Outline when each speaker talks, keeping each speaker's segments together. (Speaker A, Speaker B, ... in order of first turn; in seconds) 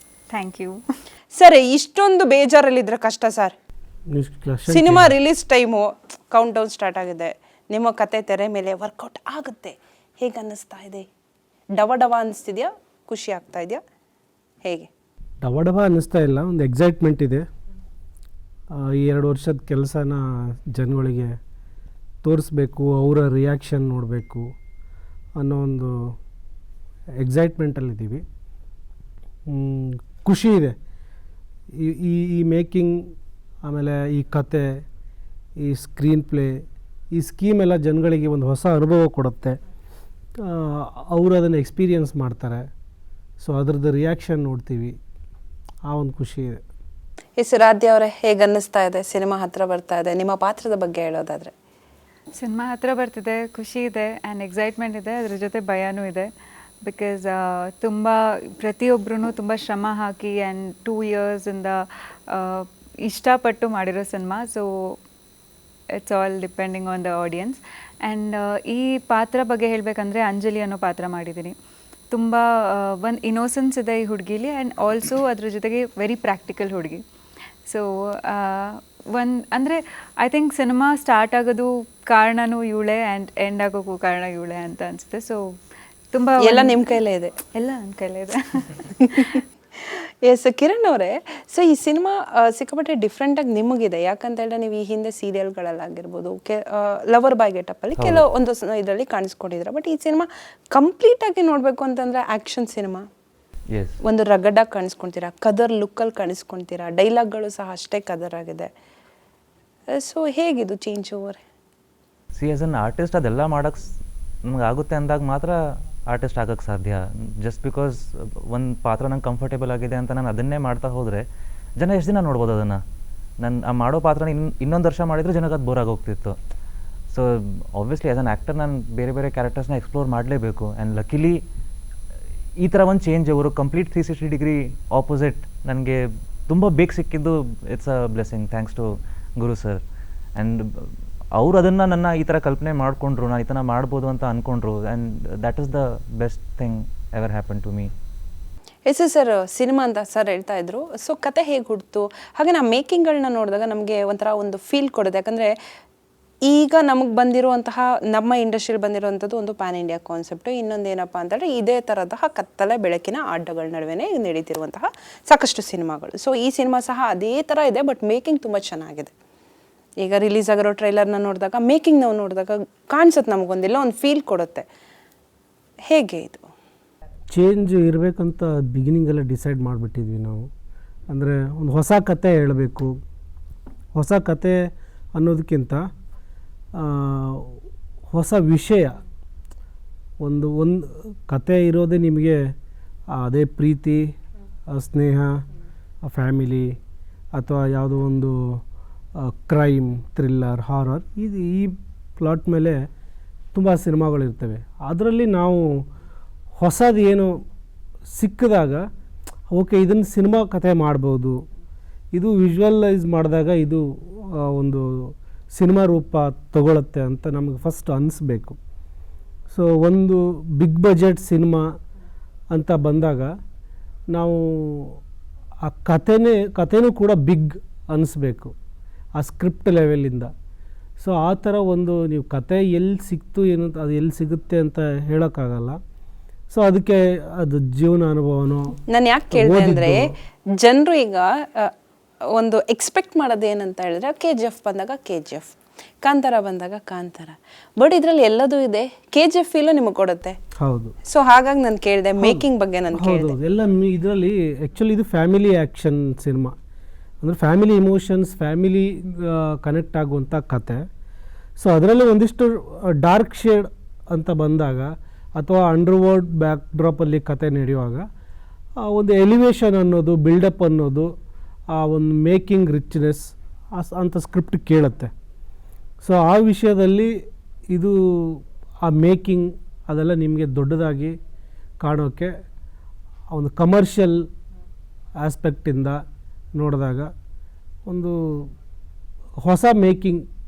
Speaker A: 0.3-0.8, 52.4-56.3, 56.8-65.0, 66.0-71.5, 72.1-77.0, 77.7-85.4, 86.1-86.8, 87.5-89.4
Speaker B: 1.3-3.5, 4.7-11.1, 11.8-13.8, 14.6-14.9, 47.4-51.5, 86.4-87.3, 89.0-103.0, 104.0-108.7, 109.9-111.4, 148.8-155.5, 156.4-169.1, 170.0-174.6, 175.9-176.4, 238.9-240.1, 240.6-241.7, 242.3-250.3, 251.1-253.3
Speaker C: 4.1-5.1, 15.4-17.4, 18.8-21.3, 22.2-24.5, 25.4-26.1, 27.2-28.2, 29.5-30.7, 31.8-33.0, 33.6-34.8, 35.6-36.6, 37.1-39.6, 40.4-42.6, 43.4-44.9, 45.9-46.6, 177.3-180.5, 181.1-182.9, 183.9-184.6, 185.1-185.8, 186.7-187.6, 188.1-189.0, 190.2-192.4, 193.1-194.0, 194.7-195.4, 196.0-196.8, 197.3-198.6, 199.2-202.8, 203.5-205.8, 206.6-207.3, 208.1-208.8, 209.5-211.4, 212.1-218.6, 219.5-221.6, 222.5-223.3, 224.1-225.0, 225.6-228.5, 229.2-230.3, 231.0-235.8, 236.5-238.8, 239.3-240.1, 250.6-250.9, 252.2-256.5, 257.2-260.8, 261.6-268.0, 268.8-271.1, 271.7-275.1, 276.0-277.1, 277.7-281.1, 281.8-282.3, 283.3-284.2, 285.2-286.0, 286.6-287.1, 287.9-288.5, 289.4-290.2
Speaker D: 98.0-98.2, 103.7-104.0, 112.3-113.9, 114.5-115.5, 116.1-121.2, 121.8-122.8, 123.4-126.3, 127.1-131.4, 132.6-138.8, 139.4-139.8, 140.4-147.9